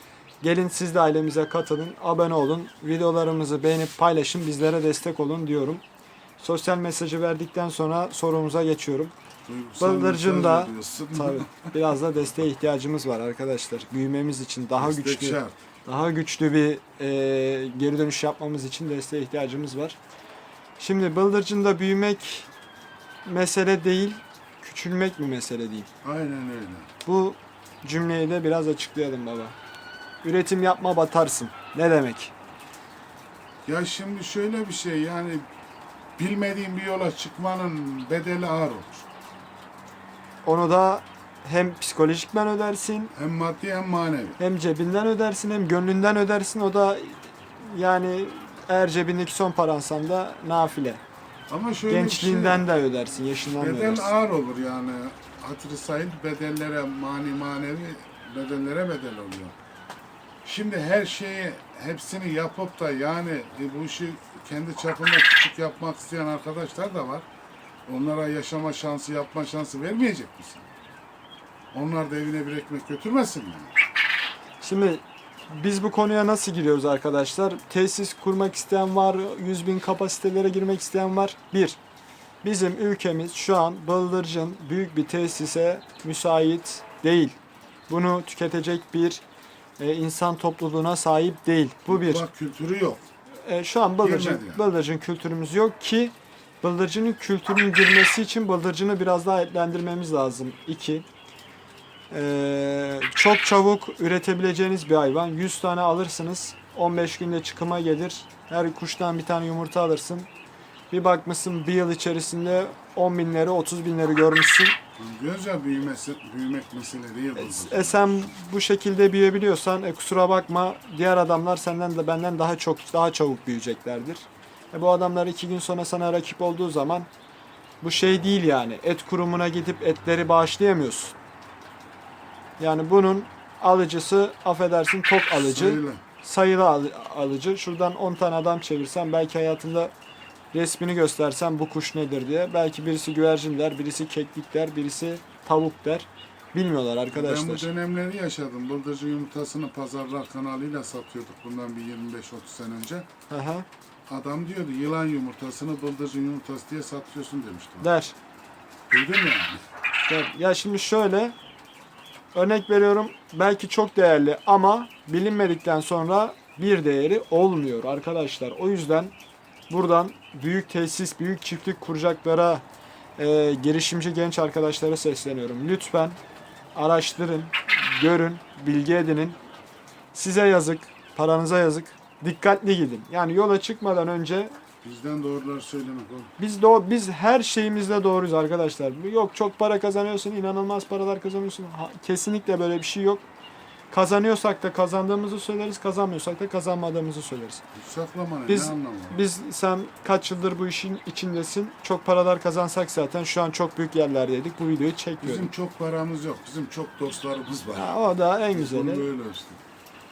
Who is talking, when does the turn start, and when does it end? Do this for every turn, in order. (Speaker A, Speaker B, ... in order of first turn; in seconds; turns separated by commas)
Speaker A: 0.4-5.8, Speaker A: 6.4-9.1, Speaker B: 9.4-11.8, Speaker A: 9.8-20.0, Speaker B: 14.8-15.6, Speaker A: 20.8-22.5, Speaker A: 23.2-25.9, Speaker B: 26.0-26.9, Speaker A: 27.0-29.6, Speaker A: 30.2-32.3, Speaker B: 33.6-35.5, Speaker B: 36.2-39.1, Speaker A: 40.4-43.1, Speaker B: 43.1-44.4, Speaker A: 44.4-51.0, Speaker B: 51.5-52.6, Speaker A: 51.9-54.1, Speaker B: 53.6-59.5, Speaker B: 60.4-67.3, Speaker B: 67.8-70.7, Speaker B: 71.7-73.7, Speaker A: 74.6-81.8, Speaker A: 82.4-87.4, Speaker A: 87.9-89.2, Speaker A: 89.8-92.2, Speaker B: 91.9-93.1, Speaker A: 93.4-101.0, Speaker B: 94.0-94.6, Speaker A: 102.1-110.3, Speaker A: 110.9-114.8, Speaker B: 115.0-118.0, Speaker A: 117.3-127.1, Speaker A: 127.8-131.1, Speaker A: 132.6-139.9, Speaker B: 135.3-136.0, Speaker A: 140.5-147.7, Speaker B: 147.1-153.1, Speaker A: 153.3-153.7, Speaker B: 154.1-157.9, Speaker A: 157.8-158.2, Speaker B: 158.9-159.6, Speaker A: 160.1-161.3, Speaker A: 162.3-169.1, Speaker A: 169.7-172.6, Speaker A: 173.2-176.2, Speaker A: 176.7-179.4, Speaker A: 180.1-184.5, Speaker B: 184.8-186.3, Speaker A: 186.4-193.2, Speaker A: 193.9-197.6, Speaker B: 197.7-199.2, Speaker A: 198.5-205.5, Speaker B: 205.2-207.9, Speaker A: 207.7-209.1, Speaker B: 208.5-209.6